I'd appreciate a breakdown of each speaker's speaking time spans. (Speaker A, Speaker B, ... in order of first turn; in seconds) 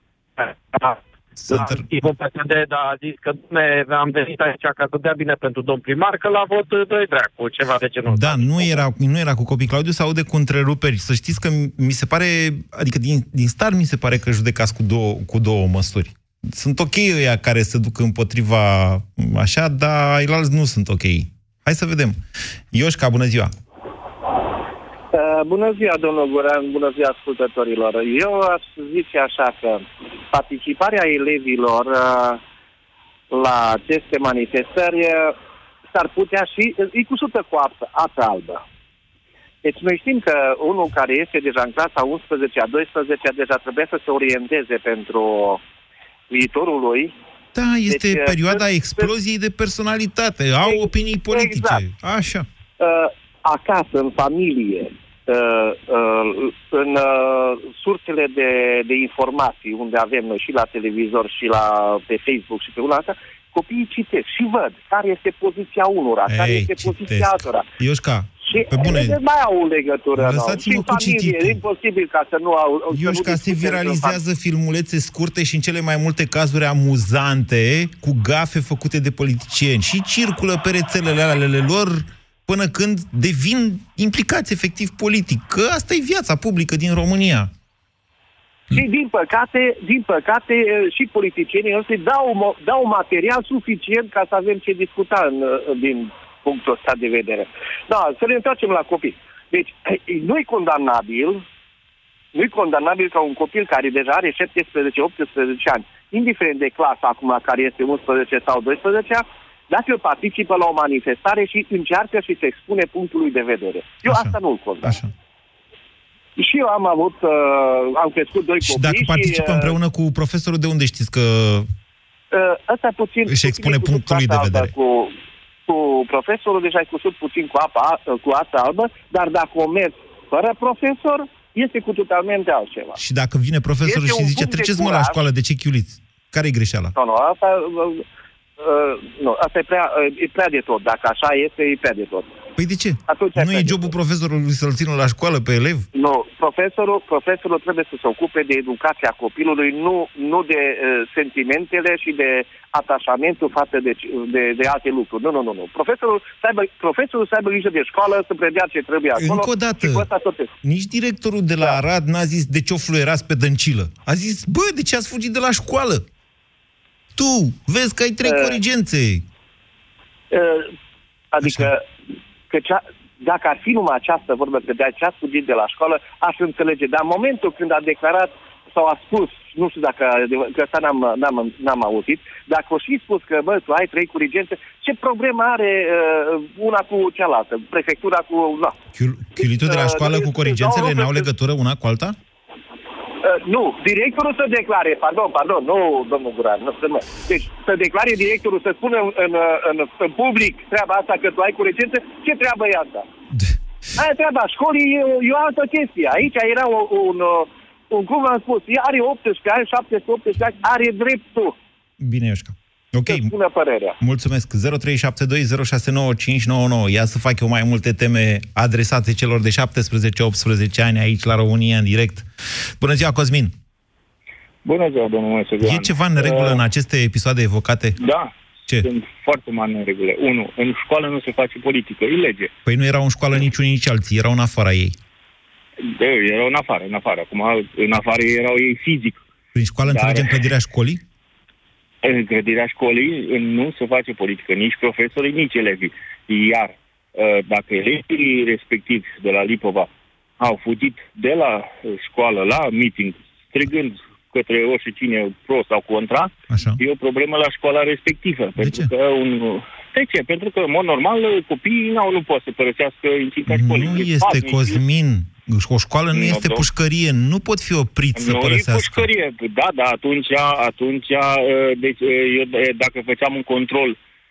Speaker A: 0.4-8.8
Speaker B: 1.4-2.0, 8.1-22.2, 22.7-23.5, 47.5-52.5, 66.3-69.2, 70.2-71.6, 72.9-87.5, 114.1-115.1, 118.6-121.7, 123.3-124.7, 133.0-136.9, 142.6-145.9, 159.2-160.1, 160.6-166.1, 167.2-169.2, 171.4-171.7, 188.9-192.2, 212.0-213.3, 214.0-222.3, 222.8-223.5, 225.6-228.0, 232.7-235.0, 239.5-241.0, 256.5-256.8, 258.6-258.9, 263.5-269.1
Speaker C: 25.1-32.4, 33.3-35.4, 35.9-38.6, 39.6-45.6, 46.3-47.1, 47.9-49.1, 50.6-51.9, 52.8-67.7, 68.4-74.2, 88.7-101.4, 102.3-115.0, 116.4-119.8, 122.3-133.0, 133.8-135.2, 137.0-138.1, 138.6-142.3, 143.1-143.9, 145.9-160.5, 168.2-168.6, 170.3-170.7, 171.3-171.9, 172.5-188.8, 189.4-191.3, 193.2-203.1, 204.0-211.6, 213.1-214.0
Speaker D: 224.6-226.6, 228.0-232.5, 235.8-239.2, 239.9-240.4, 242.0-264.8, 266.1-266.6, 268.1-274.0